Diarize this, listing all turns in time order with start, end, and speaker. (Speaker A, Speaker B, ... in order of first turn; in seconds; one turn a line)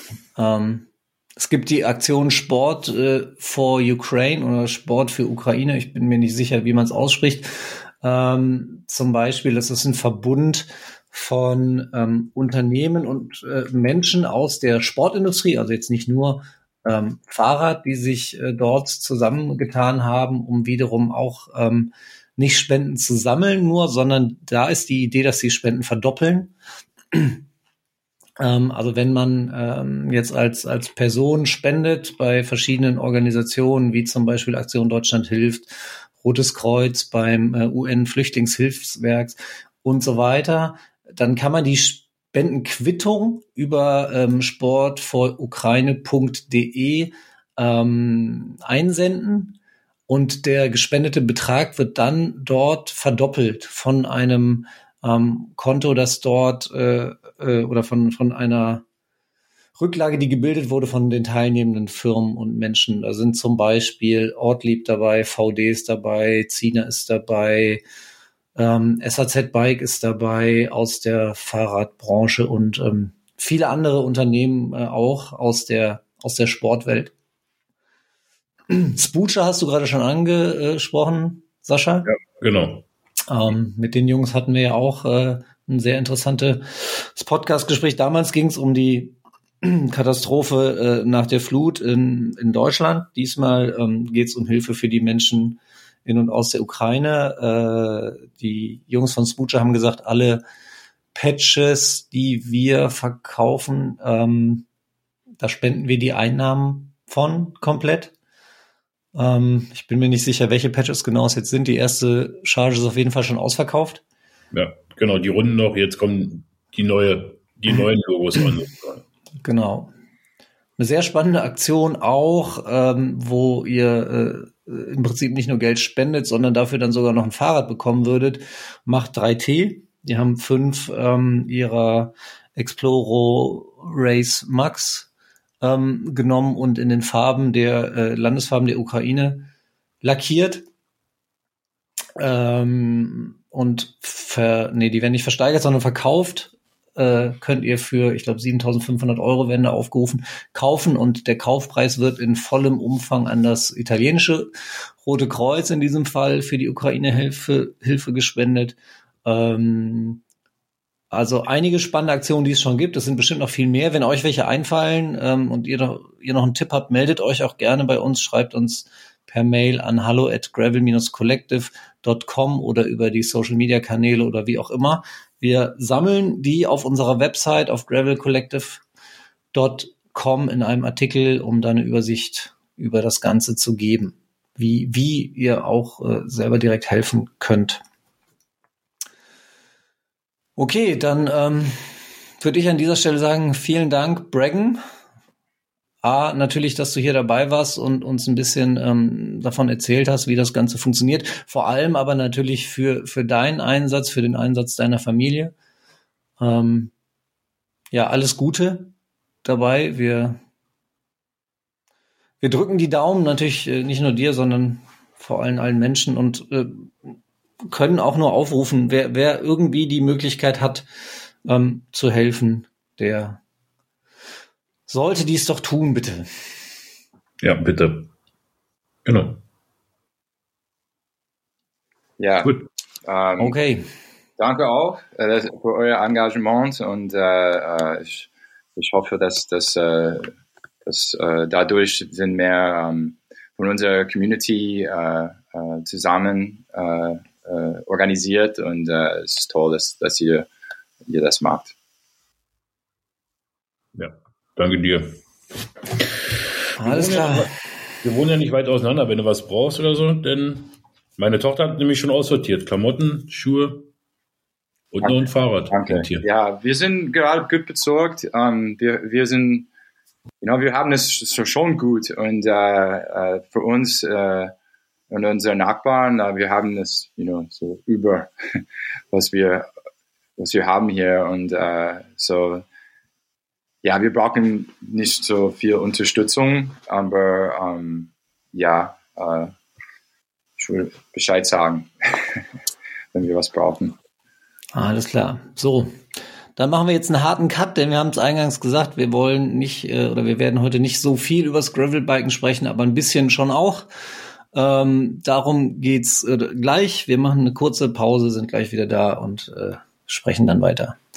Speaker A: 0.3-26.5
Speaker A: 27.1-27.4
Speaker A: 28.4-49.5
Speaker A: 50.1-58.8
Speaker A: 59.8-67.8
Speaker A: 68.5-77.1
Speaker A: 78.7-82.1
Speaker B: 82.0-82.8
Speaker A: 83.3-100.4
Speaker A: 101.1-104.7
Speaker A: 105.4-108.1
Speaker A: 109.1-114.0
Speaker B: 114.5-119.0
Speaker A: 119.4-119.9
Speaker A: 120.8-135.1
Speaker A: 135.6-139.5
Speaker A: 140.0-140.7
Speaker A: 142.2-154.5
Speaker A: 155.0-160.2
Speaker A: 161.1-178.8
Speaker A: 179.5-187.8
Speaker A: 190.6-191.9
Speaker A: 192.4-194.8
Speaker A: 196.0-205.5
Speaker A: 206.4-206.9
Speaker A: 207.9-208.9
Speaker A: 209.4-210.4
Speaker A: 212.4-216.9
Speaker A: 217.7-220.9
Speaker A: 221.4-223.4
Speaker A: 224.9-226.4
Speaker B: 227.4-228.1
Speaker B: 229.0-229.4
Speaker C: 232.2-232.5
Speaker B: 232.4-232.7
Speaker C: 233.0-233.6
Speaker A: 233.4-233.8
Speaker C: 234.4-240.3
Speaker C: 240.8-250.5
Speaker C: 251.0-251.7
Speaker B: 253.9-255.2
Speaker A: 256.8-257.5
Speaker B: 256.8-263.9
Speaker B: 264.9-266.2
Speaker C: 265.0-269.7
Speaker C: 270.4-274.5
Speaker C: 275.1-278.3
Speaker C: 279.1-279.7
Speaker C: 280.4-282.6
Speaker C: 283.8-289.5
Speaker C: 290.6-292.4
Speaker C: 293.1-293.9
Speaker A: 294.7-295.9
Speaker A: 296.6-303.9
Speaker A: 304.5-311.0